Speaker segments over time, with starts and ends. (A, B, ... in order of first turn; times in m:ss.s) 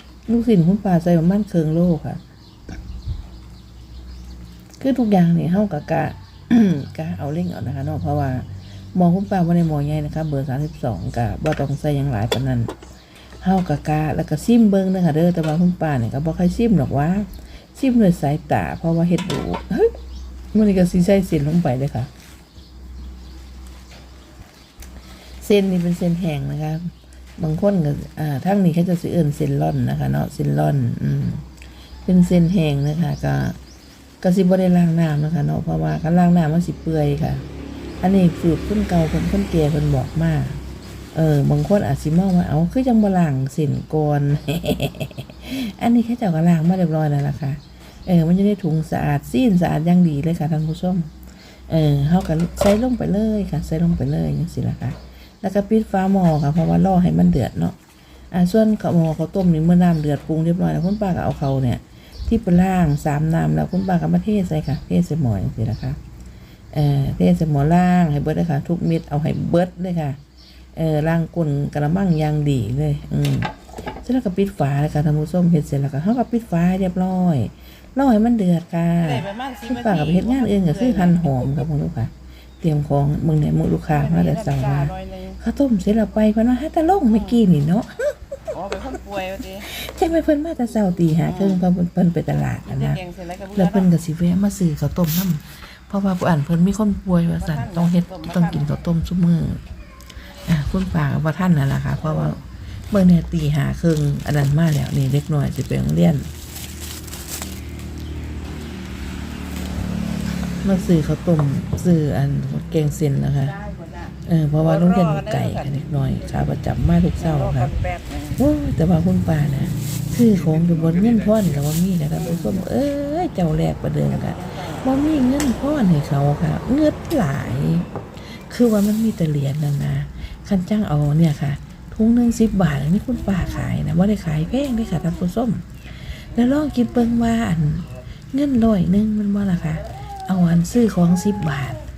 0:00.3-0:02.2 A
0:04.8-0:12.7 A
0:13.4-0:19.9 A
0:20.5-0:22.1 A
0:25.4-0:31.4 A
0:32.1-0:33.6 A
0:34.2-0:37.4 A
0:38.0-0:40.6 A
0:41.1-0:51.1 A
0:51.7-0:57.8 A
0:58.3-1:06.0 A
1:06.7-1:10.2 A
1:10.8-1:28.4 A
1:19.0-1:21.3 B
1:23.9-1:25.4 B
1:28.5-1:29.7 B
1:29.5-1:33.0 A
1:31.3-1:31.6 B
1:32.7-1:33.8 B
1:33.5-1:39.6 A
1:37.4-1:38.6 B
1:40.4-1:46.3 A
1:50.6-1:53.6 A
1:53.6-1:55.7 B
1:54.2-1:57.8 A
1:57.2-1:58.4 B
1:58.4-2:21.8 A
2:04.3-2:04.8 B